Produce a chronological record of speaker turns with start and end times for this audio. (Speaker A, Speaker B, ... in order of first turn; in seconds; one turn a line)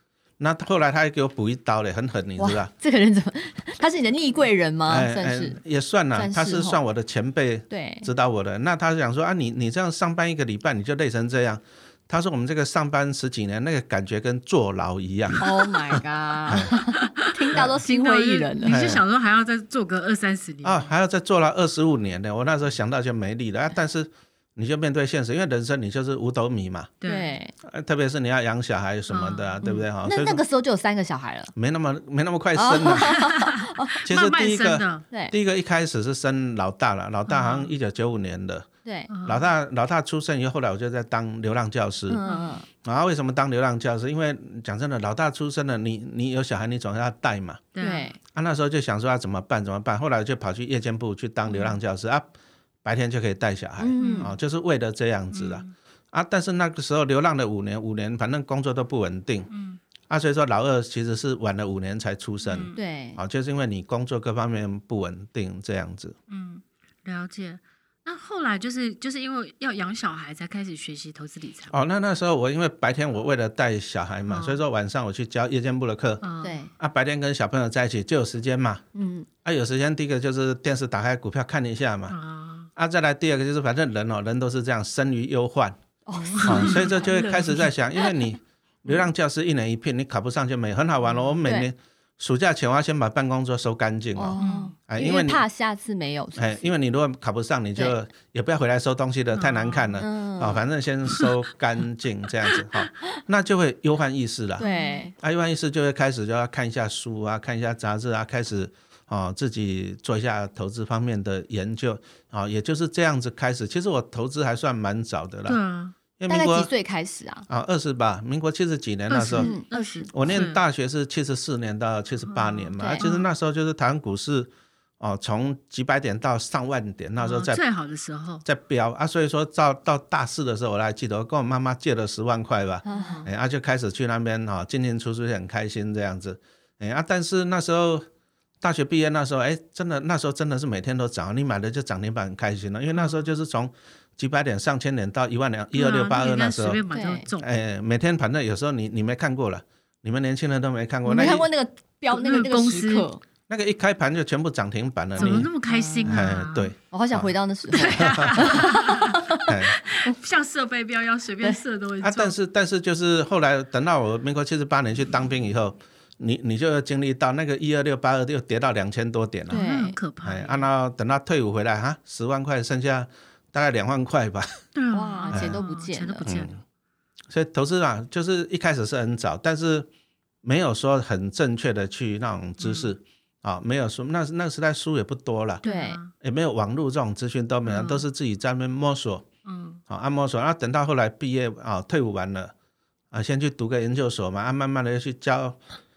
Speaker A: 0.4-2.7
Speaker B: 2.4-5.6
Speaker A: 4.9-16.7
Speaker B: 6.1-6.8
Speaker B: 7.7-8.1
Speaker B: 15.4-18.9
Speaker C: 16.9-20.9
Speaker A: 18.7-19.1
Speaker A: 20.6-26.9
Speaker C: 27.0-27.4
Speaker B: 27.0-27.5
Speaker A: 27.6-30.4
Speaker C: 29.1-29.9
Speaker B: 29.6-31.5
Speaker A: 31.6-33.3
Speaker B: 32.5-34.0
Speaker C: 32.9-35.0
Speaker A: 34.0-38.7
Speaker C: 37.3-37.7
Speaker B: 38.8-39.1
Speaker C: 39.1-39.5
Speaker A: 39.2-42.2
Speaker B: 42.1-42.7
Speaker C: 42.3-42.6
Speaker A: 42.8-47.7
Speaker C: 47.7-48.1
Speaker B: 47.8-48.2
Speaker A: 48.3-52.3
Speaker A: 52.8-59.5
Speaker B: 53.8-54.3
Speaker C: 54.0-54.3
Speaker C: 55.3-55.7
Speaker C: 59.5-59.8
Speaker A: 60.1-66.2
Speaker C: 62.4-62.8
Speaker B: 62.7-63.2
Speaker C: 66.3-71.7
Speaker A: 71.7-76.2
Speaker C: 74.3-74.6
Speaker C: 76.2-76.6
Speaker B: 76.4-76.7
Speaker A: 76.8-78.8
Speaker B: 79.0-79.3
Speaker A: 79.5-82.2
Speaker C: 82.1-82.7
Speaker A: 82.8-85.8
Speaker B: 86.1-87.5
Speaker C: 86.2-87.7
Speaker A: 86.4-95.4
Speaker C: 91.0-91.4
Speaker B: 94.2-96.7
Speaker C: 94.4-94.7
Speaker A: 96.4-104.7
Speaker C: 99.3-100.0
Speaker B: 100.0-100.6
Speaker B: 104.6-105.1
Speaker C: 104.6-105.0
Speaker A: 105.2-115.6
Speaker C: 115.5-116.0
Speaker A: 116.2-116.7
Speaker B: 116.3-117.5
Speaker A: 117.5-119.6
Speaker C: 119.1-120.6
Speaker B: 119.3-120.1
Speaker A: 120.1-127.6
Speaker C: 122.3-123.3
Speaker B: 122.8-123.0
Speaker C: 127.2-128.4
Speaker A: 128.4-138.1
Speaker B: 132.8-133.2
Speaker C: 132.9-133.3
Speaker A: 138.6-146.8
Speaker C: 145.7-147.5
Speaker B: 146.9-147.3
Speaker A: 147.4-151.5
Speaker B: 151.1-153.2
Speaker C: 152.1-153.1
Speaker A: 153.5-155.5
Speaker B: 155.2-156.3
Speaker C: 155.2-156.7
Speaker A: 156.1-157.3
Speaker B: 156.9-159.5
Speaker C: 157.7-162.3
Speaker A: 157.9-158.7
Speaker A: 159.5-159.8
Speaker A: 162.0-169.6
Speaker B: 169.5-170.0
Speaker C: 169.5-170.7
Speaker A: 170.2-174.6
Speaker C: 174.8-176.5
Speaker B: 174.9-176.3
Speaker A: 175.3-175.6
Speaker A: 176.2-176.6
Speaker A: 177.3-179.9
Speaker A: 180.4-185.6
Speaker C: 182.6-182.9
Speaker B: 185.6-186.0
Speaker C: 185.6-186.1
Speaker A: 186.2-189.3
Speaker C: 187.7-188.1
Speaker C: 189.4-189.8
Speaker A: 189.9-192.5
Speaker A: 193.1-195.6